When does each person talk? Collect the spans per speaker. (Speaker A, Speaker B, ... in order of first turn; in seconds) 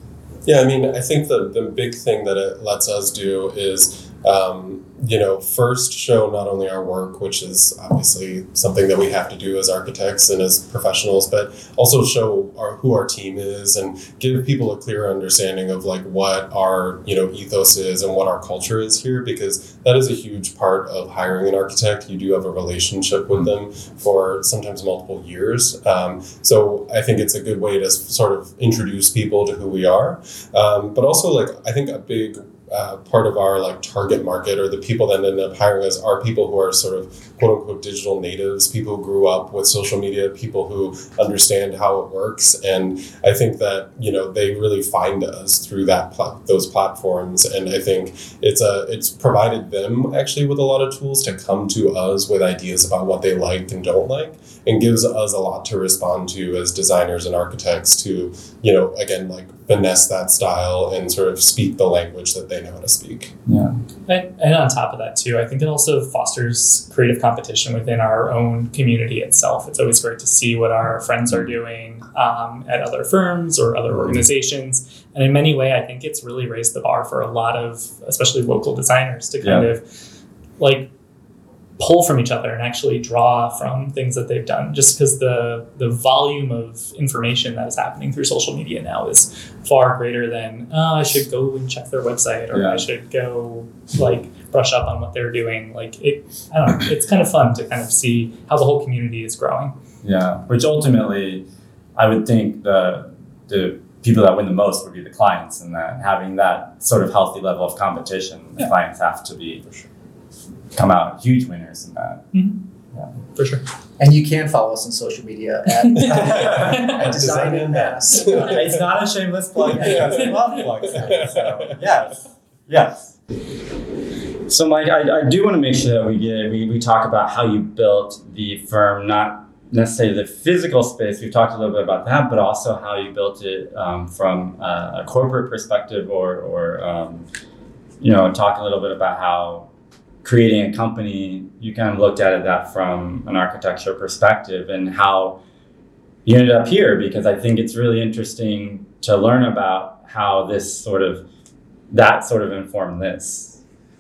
Speaker A: 0.5-63.3, 116.2-118.8, 119.7-120.3, 120.9-121.8
Speaker B: 63.5-63.8, 73.9-74.2, 79.4-79.7, 92.5-92.8, 100.0-101.5, 102.0-109.7, 110.7-112.2, 116.0-117.7, 118.2-123.2, 124.5-137.2, 138.0-139.7, 140.2-145.4, 146.2-151.2, 151.9-153.6
Speaker C: 64.1-79.9, 80.6-80.9, 81.8-99.7, 112.3-112.6, 113.3-113.6, 116.6-116.9
Speaker D: 114.0-118.6, 119.7-120.2